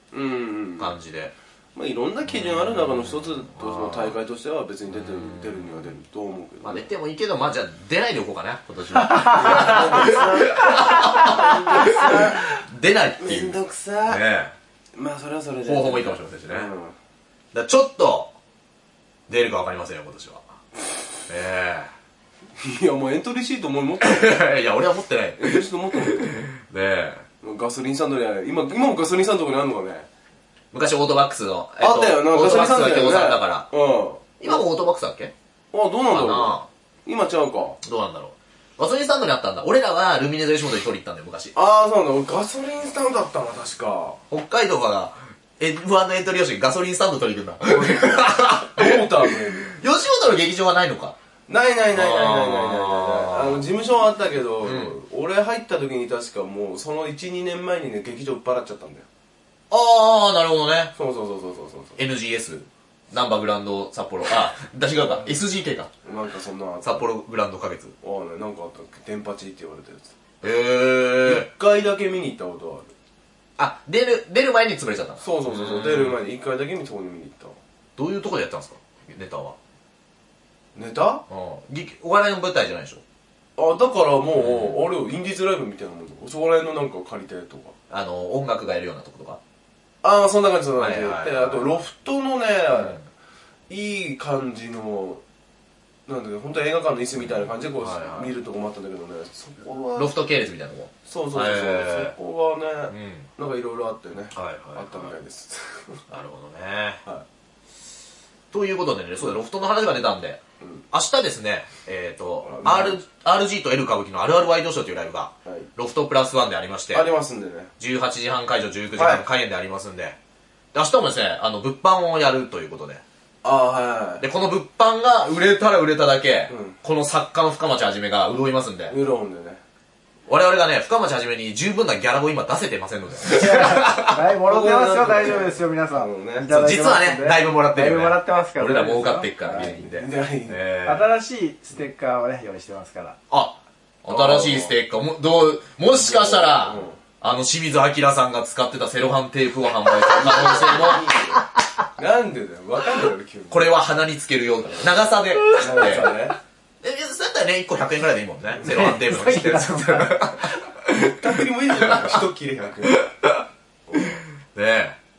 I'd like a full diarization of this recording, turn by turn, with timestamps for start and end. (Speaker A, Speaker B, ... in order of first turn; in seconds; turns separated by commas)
Speaker A: 0.1-0.9, Speaker B: 0.8-1.3, Speaker A: 1.7-6.9, Speaker B: 2.2-4.2, Speaker B: 4.9-5.9, Speaker B: 6.6-14.5, Speaker A: 9.3-12.6, Speaker A: 13.2-14.2, Speaker A: 14.9-16.9, Speaker B: 15.6-16.7, Speaker B: 17.5-18.3, Speaker B: 19.3-20.4, Speaker B: 21.3-21.9, Speaker A: 22.6-24.4, Speaker B: 24.0-27.2, Speaker A: 25.4-26.4, Speaker A: 27.4-30.1, Speaker B: 30.7-33.7, Speaker A: 31.8-34.5, Speaker B: 34.4-35.3, Speaker A: 35.7-37.8, Speaker B: 36.1-36.7, Speaker B: 37.8-41.5, Speaker A: 41.5-44.2, Speaker B: 44.3-51.1, Speaker A: 47.6-49.8, Speaker A: 51.5-59.1, Speaker B: 51.9-53.6, Speaker B: 54.6-54.9, Speaker B: 59.7-60.9, Speaker A: 60.9-62.0, Speaker B: 62.0-65.9, Speaker A: 66.0-67.1, Speaker B: 66.8-67.9, Speaker A: 68.0-70.1, Speaker B: 70.4-71.5, Speaker A: 71.2-72.9, Speaker B: 73.6-76.2, Speaker A: 75.2-77.6, Speaker B: 78.0-79.6, Speaker A: 80.7-81.2, Speaker B: 81.3-83.0, Speaker A: 83.6-87.7, Speaker B: 84.3-84.8, Speaker B: 87.9-89.4, Speaker A: 90.0-93.0, Speaker B: 90.8-91.7, Speaker B: 92.7-93.0, Speaker A: 93.7-95.2, Speaker A: 96.1-100.2, Speaker B: 97.2-98.3, Speaker B: 100.0-102.1, Speaker A: 101.0-106.0, Speaker B: 102.9-103.3, Speaker B: 104.3-105.2, Speaker B: 106.1-107.0, Speaker B: 108.5-117.1, Speaker A: 112.4-113.0, Speaker A: 116.9-117.7, Speaker B: 117.8-120.2, Speaker A: 118.9-119.2, Speaker B: 120.7-123.0, Speaker A: 123.4-124.2, Speaker B: 124.2-128.9, Speaker A: 126.5-126.8, Speaker A: 128.9-129.6, Speaker B: 130.3-134.2, Speaker C: 133.2-139.3, Speaker A: 134.4-136.5, Speaker B: 136.4-141.1, Speaker A: 139.4-140.6, Speaker C: 140.8-143.2, Speaker B: 143.3-151.4, Speaker A: 144.1-144.8, Speaker A: 145.9-147.0, Speaker A: 150.1-151.4, Speaker A: 152.0-153.8, Speaker B: 153.5-156.2, Speaker A: 155.5-156.3, Speaker B: 156.8-162.2, Speaker C: 158.6-160.5, Speaker A: 160.9-163.0, Speaker B: 163.1-163.3, Speaker A: 163.9-164.2, Speaker B: 164.0-165.0